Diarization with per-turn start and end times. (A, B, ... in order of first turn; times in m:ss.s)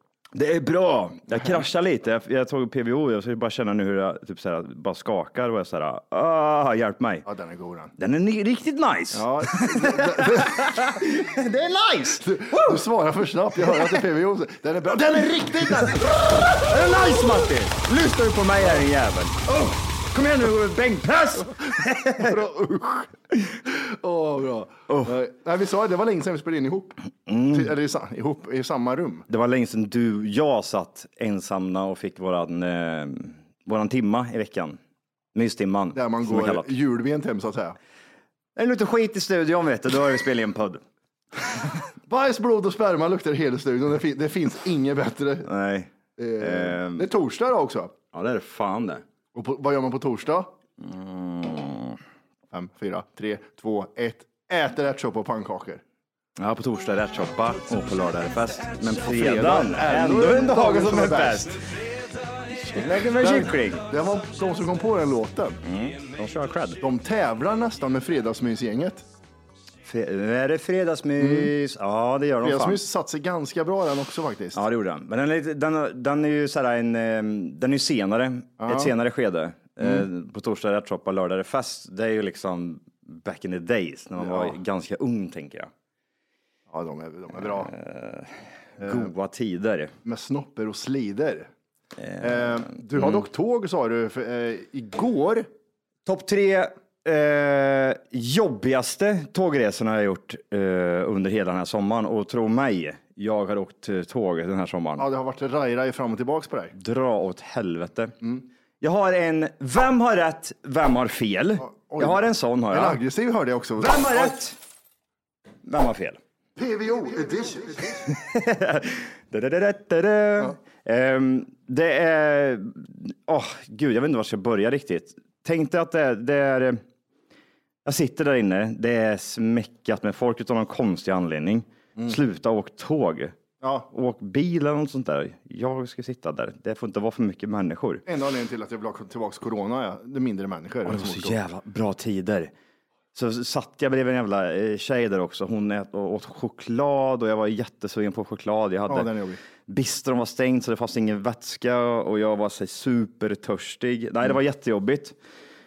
0:00.4-0:07.2 A
0:07.3-0:07.9 B
0:08.0-0:12.8 A
0:09.1-0:11.0 B
0:12.2-0:16.3 B
0:16.4-0:22.6 A
0:22.2-0:23.0 B
0:23.7-0:27.0 B
0:27.3-0:27.7 A
0:27.5-0:29.2 B
0:29.3-0:34.8 A
0:35.3-0:36.7 A
0:36.0-0:37.8 B
0:38.6-0:40.8 A
0:42.1-0:45.5 B
0:45.4-0:47.1 A
0:46.2-0:47.9 B
0:48.1-0:49.0 A
0:49.3-0:50.5 B
0:50.8-0:52.0 A
0:52.5-0:55.8 B
0:56.4-1:01.6 A
0:59.0-1:01.5 B
1:02.7-1:05.6 B
1:02.7-1:03.9 A
1:05.6-1:06.8 A
1:06.8-1:09.0 B
1:09.8-1:12.8 A
1:11.2-1:11.5 B
1:12.4-1:14.6 B
1:14.5-1:25.7 A
1:18.6-1:18.9 B
1:24.2-1:24.6 B
1:26.7-1:27.7 B
1:27.4-1:29.9 A
1:28.8-1:29.1 B
1:30.0-1:31.5 B
1:32.0-1:33.2 A
1:32.2-1:35.5 B
1:36.1-1:45.1 A
1:45.0-1:46.7 B
1:46.8-1:48.2 A
1:48.8-1:53.0 A
1:51.6-1:54.4 B
1:53.8-1:54.6 A
1:55.6-1:56.2 A
1:56.6-1:58.0 B
1:58.0-2:06.8 A
2:07.8-2:13.4 A
2:13.6-2:13.9 B
2:13.9-2:18.0 A
2:18.0-2:21.4 B
2:20.9-2:22.5 A
2:23.2-2:29.1 A
2:28.9-2:29.4 B
2:29.7-2:35.2 A